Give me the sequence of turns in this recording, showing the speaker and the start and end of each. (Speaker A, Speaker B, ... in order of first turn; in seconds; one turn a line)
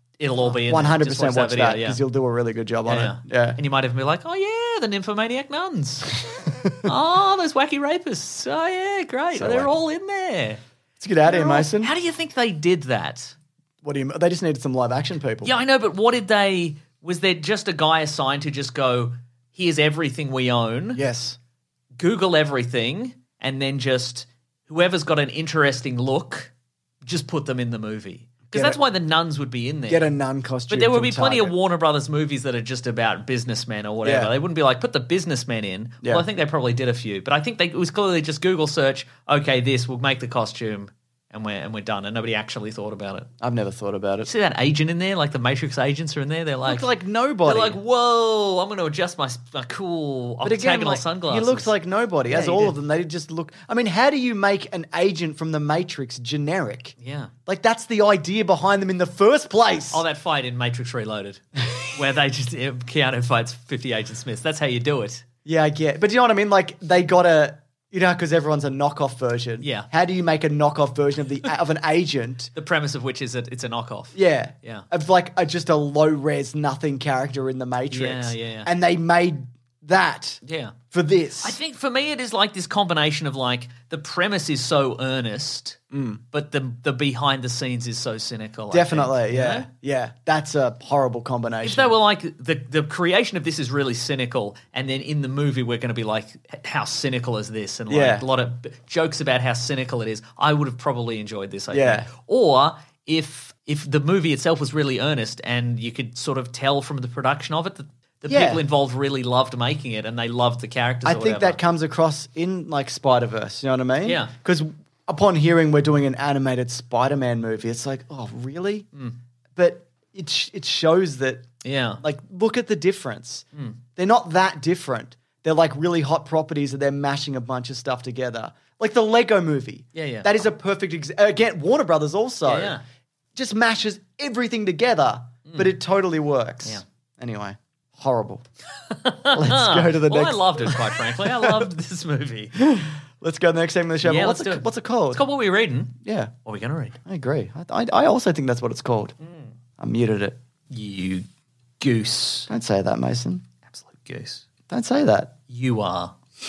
Speaker A: 0.2-2.0
Speaker B: 0.4-3.6
Speaker A: 2.9-6.2
Speaker B: 6.5-6.8
Speaker A: 6.8-10.6
Speaker B: 9.3-9.8
Speaker B: 11.0-11.9
Speaker A: 11.2-13.3
Speaker B: 13.8-15.5
Speaker A: 15.4-21.0
Speaker B: 20.9-21.4
Speaker A: 22.0-26.5
Speaker A: 27.0-30.1
Speaker B: 28.5-28.8
Speaker B: 29.9-31.6
Speaker A: 30.7-43.3
Speaker B: 34.0-34.3
Speaker B: 43.4-44.3
Speaker A: 44.2-46.9
Speaker B: 46.6-47.8
Speaker A: 47.5-51.7
Speaker B: 50.4-60.0
Speaker A: 52.3-52.8
Speaker A: 57.0-57.3
Speaker A: 59.9-61.4
Speaker A: 61.9-65.2
Speaker B: 65.5-72.5
Speaker A: 69.6-69.9
Speaker A: 72.5-74.9
Speaker B: 74.1-81.6
Speaker A: 77.9-78.7
Speaker A: 80.4-80.8
Speaker A: 81.4-85.8
Speaker B: 85.9-86.2
Speaker A: 86.3-89.7
Speaker B: 88.7-91.9
Speaker A: 91.6-111.6
Speaker B: 97.9-98.3
Speaker B: 101.7-102.1
Speaker B: 108.3-108.6
Speaker B: 111.0-118.9
Speaker A: 114.0-114.3
Speaker B: 119.6-121.5
Speaker A: 121.6-122.0
Speaker B: 122.0-123.5
Speaker B: 124.0-132.8
Speaker A: 129.9-130.4
Speaker A: 132.5-132.8
Speaker B: 133.3-138.4
Speaker A: 135.5-135.8
Speaker A: 138.9-142.6
Speaker B: 139.3-141.7
Speaker B: 142.6-145.2
Speaker A: 144.0-147.0
Speaker B: 146.0-146.3
Speaker B: 147.1-149.1
Speaker A: 149.2-149.6
Speaker B: 149.8-150.4
Speaker A: 150.7-151.3
Speaker A: 151.8-152.5
Speaker B: 152.5-153.4
Speaker A: 153.7-154.4
Speaker B: 154.7-155.3
Speaker A: 155.5-156.2